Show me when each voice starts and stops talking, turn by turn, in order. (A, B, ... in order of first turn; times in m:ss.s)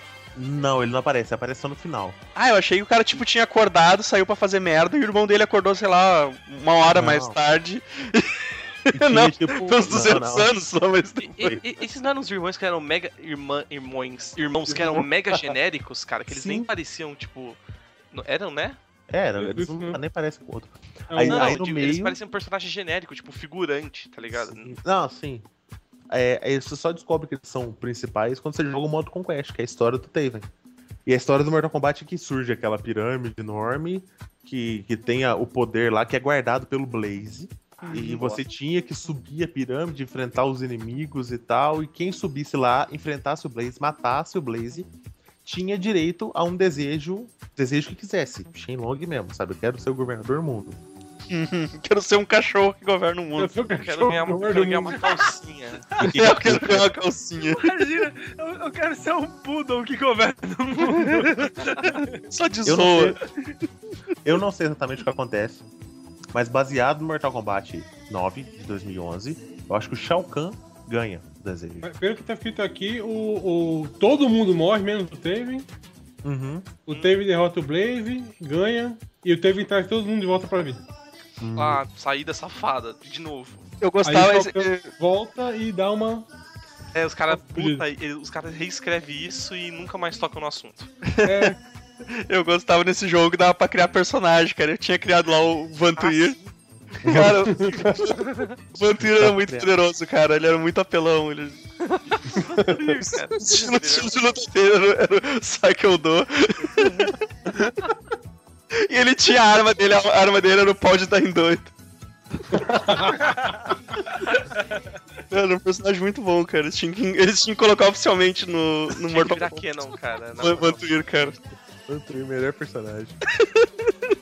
0:00.3-0:02.2 A
0:02.3-0:11.5 B
0:06.9-0:07.4 A
0:08.9-0:10.5 A
0:11.2-0:17.6 C
0:14.7-0:15.4 A
0:16.3-0:16.7 A
0:18.1-0:18.8 C
0:19.1-0:22.2 A
0:19.4-0:20.0 D
0:21.1-0:21.6 D
0:21.2-0:24.7 C
0:24.3-0:25.5 A
0:26.1-0:30.5 A
0:31.0-0:44.9 A
0:37.8-0:38.4 B
0:45.4-0:50.8 A
0:51.3-0:53.6 B
0:53.3-0:55.0 D
0:53.6-0:55.9 C
0:56.0-0:56.9 A
0:56.0-0:57.7 B
0:57.5-1:02.1 E
1:02.3-1:03.2 B
1:02.6-1:03.2 A
1:04.2-1:05.6 A
1:06.3-1:11.9 A
1:11.8-1:15.7 D
1:16.2-1:16.7 A
1:16.8-1:20.8 D
1:16.9-1:17.1 C
1:21.4-1:21.8 A
1:21.6-1:23.6 C
1:23.8-1:24.9 B
1:24.0-1:26.3 D
1:26.9-1:30.9 C
1:27.3-1:27.8 D
1:31.0-1:31.5 B
1:31.2-1:31.6 D
1:32.1-1:36.4 B
1:36.0-1:36.5 C
1:37.0-1:41.6 B
1:37.0-1:37.3 A
1:37.3-1:37.8 D
1:38.2-1:38.6 C
1:39.0-1:39.7 A
1:41.8-1:44.3 C
1:43.0-1:47.8 B
1:48.8-1:51.7 B
1:52.5-1:53.2 D
1:55.3-1:59.6 B
1:59.0-2:01.3 C
2:00.4-2:01.4 B
2:01.9-2:03.2 A
2:03.4-2:03.7 B